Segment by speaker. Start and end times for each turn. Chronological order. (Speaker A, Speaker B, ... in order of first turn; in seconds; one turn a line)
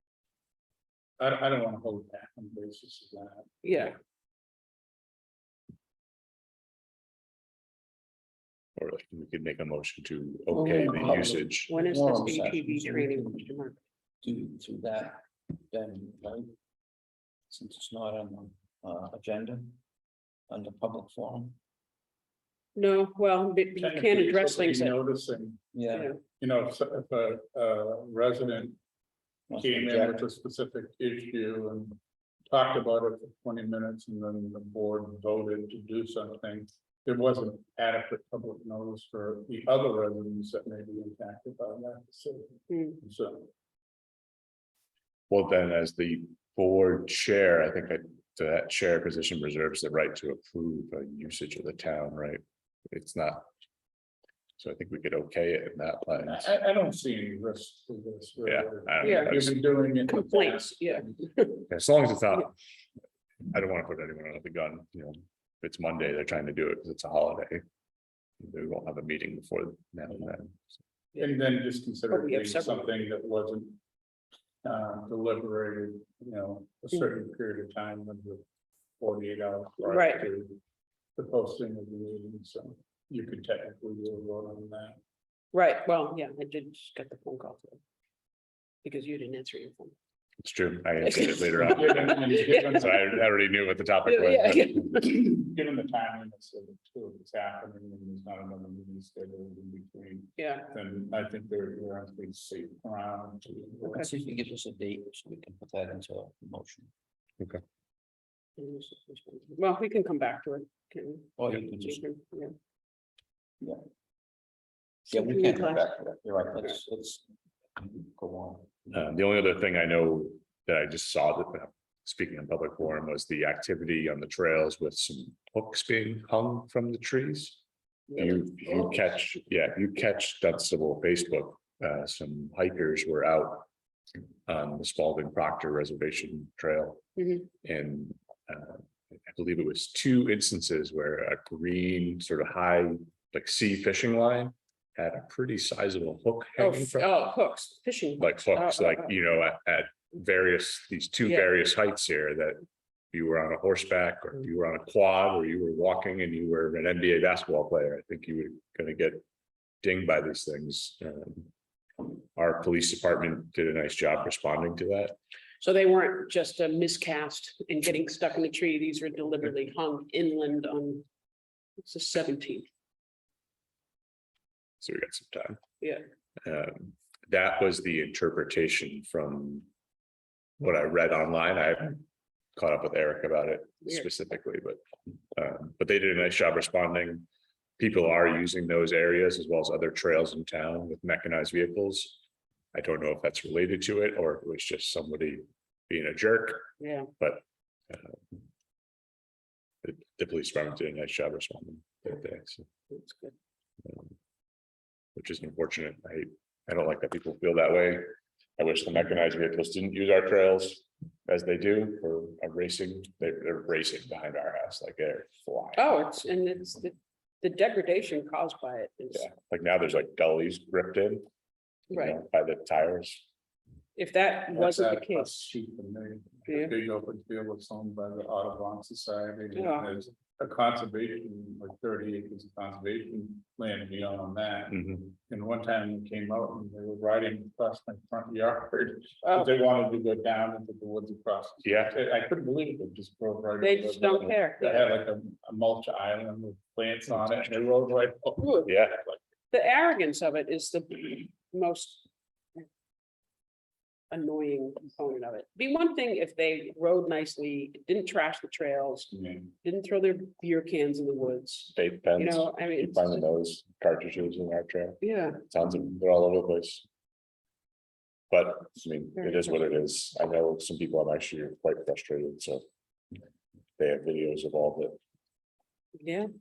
Speaker A: 1.2-3.9
Speaker B: 3.6-3.9
Speaker C: 8.8-11.8
Speaker D: 10.5-13.5
Speaker B: 11.7-13.8
Speaker D: 14.2-16.5
Speaker D: 17.5-19.8
Speaker D: 20.5-21.6
Speaker B: 22.8-24.9
Speaker A: 23.8-25.6
Speaker D: 25.7-26.1
Speaker B: 25.9-26.2
Speaker A: 26.4-28.8
Speaker D: 29.5-30.2
Speaker A: 29.6-32.0
Speaker A: 32.5-43.5
Speaker B: 42.7-43.0
Speaker C: 45.3-53.5
Speaker C: 54.6-56.5
Speaker A: 56.2-61.3
Speaker C: 58.4-59.6
Speaker B: 59.0-61.6
Speaker C: 61.7-62.5
Speaker C: 63.5-67.6
Speaker C: 68.4-70.6
Speaker A: 70.1-70.3
Speaker A: 71.2-73.8
Speaker B: 72.1-72.9
Speaker A: 74.6-78.4
Speaker A: 79.0-80.6
Speaker B: 79.8-80.3
Speaker A: 81.2-85.0
Speaker B: 85.5-87.8
Speaker B: 88.8-89.9
Speaker C: 90.4-94.9
Speaker B: 91.0-92.8
Speaker A: 91.5-93.1
Speaker B: 94.0-95.2
Speaker A: 95.0-104.1
Speaker B: 100.4-100.7
Speaker D: 103.9-106.9
Speaker B: 108.6-112.5
Speaker D: 111.4-112.0
Speaker D: 115.1-118.9
Speaker C: 118.9-127.6
Speaker C: 128.1-133.7
Speaker C: 134.5-137.0
Speaker B: 137.2-137.5
Speaker C: 137.6-147.1
Speaker B: 146.6-149.2
Speaker C: 148.2-159.2
Speaker B: 151.2-151.5
Speaker C: 159.8-161.5
Speaker C: 162.3-165.2
Speaker B: 165.6-171.0
Speaker B: 171.8-172.7
Speaker C: 174.8-175.6
Speaker C: 176.4-179.7
Speaker C: 180.6-182.0
Speaker C: 182.6-184.8
Speaker C: 185.3-187.2
Speaker C: 187.8-192.2
Speaker C: 192.7-198.2
Speaker B: 196.8-197.1
Speaker C: 199.8-202.7
Speaker B: 202.9-203.3
Speaker C: 203.8-204.1
Speaker C: 205.2-208.1
Speaker C: 208.6-216.0
Speaker B: 215.8-219.3
Speaker C: 219.1-221.2
Speaker B: 221.9-222.2
Speaker C: 221.9-223.2
Speaker B: 223.9-225.5
Speaker A: 224.5-249.2
Speaker B: 226.5-226.8
Speaker B: 229.5-229.9
Speaker C: 234.7-235.0
Speaker B: 239.2-239.6
Speaker C: 241.6-241.9
Speaker B: 243.6-244.8
Speaker B: 248.4-248.7
Speaker C: 248.6-249.0
Speaker B: 249.5-252.0
Speaker B: 254.1-263.2
Speaker C: 261.7-266.8
Speaker B: 265.0-265.4
Speaker C: 268.3-272.6
Speaker B: 269.1-269.5
Speaker C: 273.8-275.0
Speaker B: 276.0-276.3